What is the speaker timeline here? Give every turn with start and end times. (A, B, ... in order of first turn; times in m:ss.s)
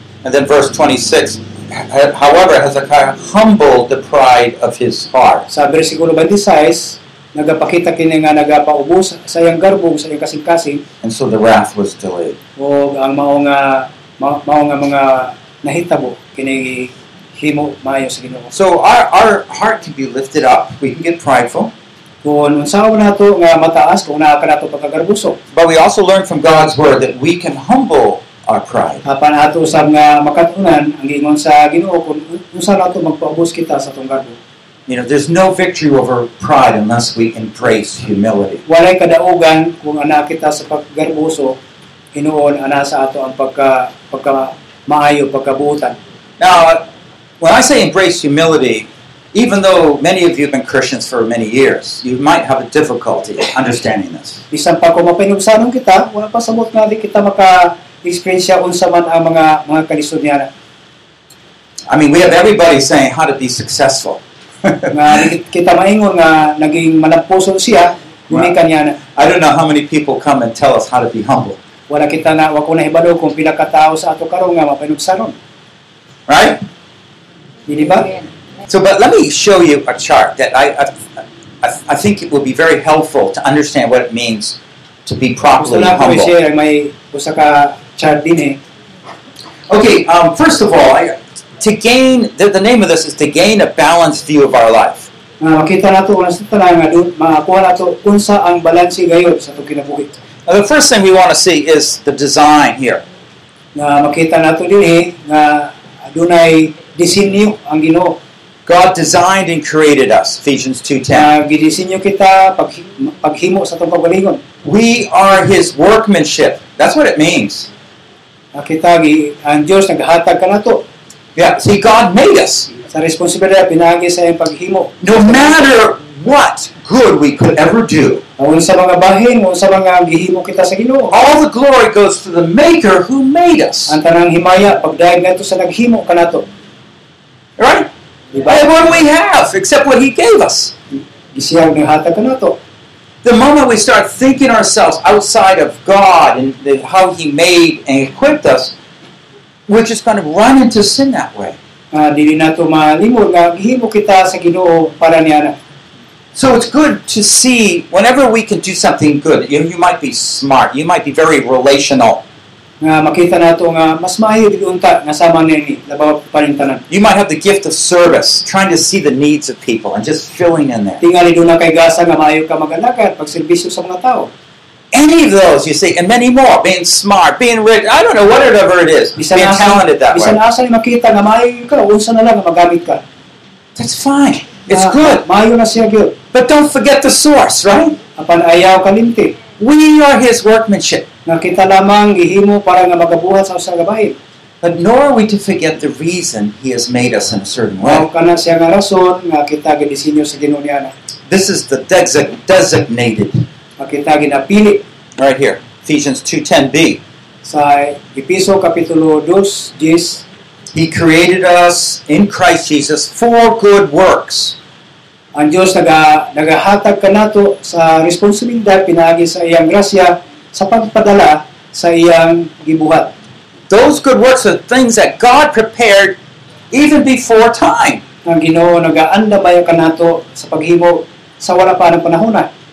0:00.2-0:05.5 A
0:05.5-0:10.8 B
0:11.0-0:12.4 A
0:12.6-0:18.5 B
0:18.5-0:21.7 A
0:22.2-0:25.4 B
0:25.5-0:29.0 A
0:29.0-0:34.4 B
0:34.9-0:38.6 A
0:38.7-0:41.6 B
0:42.2-0:46.0 B
0:46.4-0:46.8 A
0:47.4-0:54.4 A
0:54.5-1:00.5 B
1:01.9-1:05.2 A
1:04.9-1:09.0 B
1:09.2-1:11.6 A
1:11.9-1:15.4 B
1:16.3-1:16.6 A
1:17.7-1:18.1 B
1:18.7-1:21.0 A
1:21.6-1:26.3 A
1:25.6-1:28.6 B
1:29.7-1:35.1 A
1:35.4-1:40.1 B
1:40.5-1:43.0 A
1:43.8-1:48.2 B
1:48.7-1:51.3 A
1:51.1-1:54.4 B
1:54.6-1:57.7 A
1:58.5-2:00.8 B
2:01.4-2:02.7 A
2:02.9-2:05.7 B
2:05.0-2:08.2 A
2:08.4-2:11.2 B
2:11.1-2:14.0 A
2:13.9-2:16.4 B
2:17.6-2:17.9 A
2:18.4-2:18.6 B
2:18.4-2:20.7 A
2:21.3-2:22.6 B
2:23.2-2:28.8 A
2:29.7-2:31.6 A
2:31.9-2:35.6 B
2:36.3-2:42.2 A
2:42.8-2:46.8 B
2:46.9-2:51.0 A
2:51.0-2:54.3 B
2:54.9-3:00.4 A
2:59.2-3:03.0 B
3:03.8-3:05.2 A
3:04.7-3:06.2 B
3:06.3-3:08.0 A
3:08.2-3:09.4 B
3:09.6-3:11.1 A
3:11.3-3:14.2 B
3:14.6-3:18.1 A
3:17.8-3:20.9 B
3:21.3-3:23.4 A
3:23.8-3:24.8 B
3:25.2-3:27.0 A
3:27.4-3:30.2 B
3:30.7-3:34.6 A
3:35.4-3:43.1 B
3:43.7-3:46.2 A
3:46.7-3:48.0 A
3:48.2-3:52.5 B